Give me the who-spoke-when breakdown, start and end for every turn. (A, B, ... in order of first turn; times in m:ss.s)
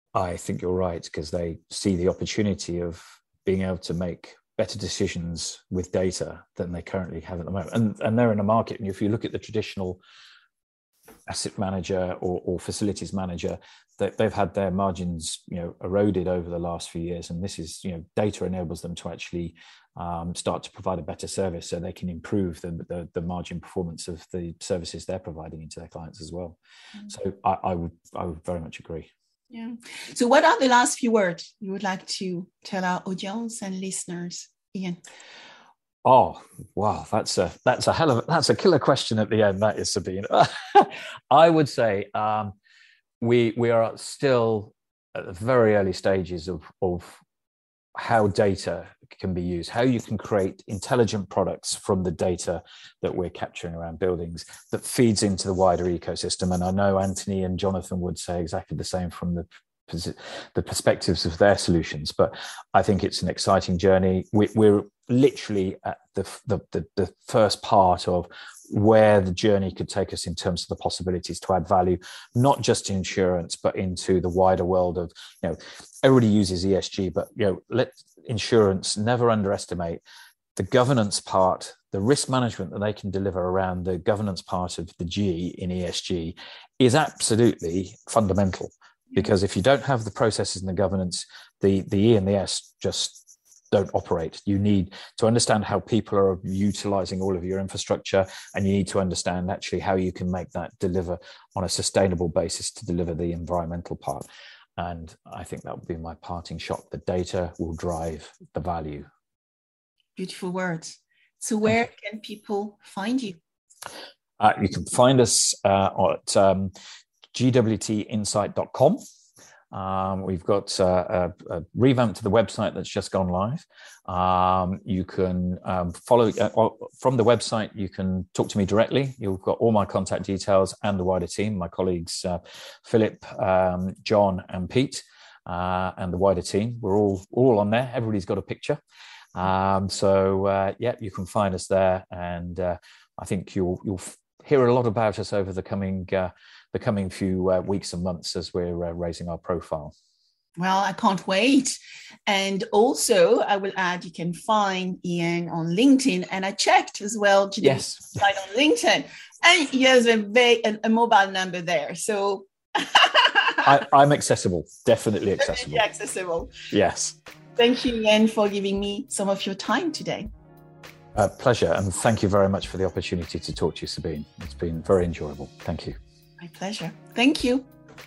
0:00.1-0:10.0 A
0:11.3-0:26.6 A
0:27.1-0:29.1 A
0:29.5-0:35.0 B
0:36.0-0:42.6 A
0:43.2-0:47.2 A
0:48.0-1:20.0 A
1:20.6-1:33.2 A
1:33.7-1:44.2 A
1:44.8-1:49.1 A
1:50.2-1:53.4 B
1:54.4-1:56.7 A
1:57.3-1:59.0 A
1:59.7-2:18.8 A
2:19.4-2:29.9 A
2:30.6-2:43.7 B
2:37.6-2:38.2 A
2:43.6-2:45.8 A
2:45.4-2:46.5 B
2:46.7-2:47.2 A
2:47.6-2:50.3 B
2:51.1-2:56.0 A
2:56.4-2:57.7 B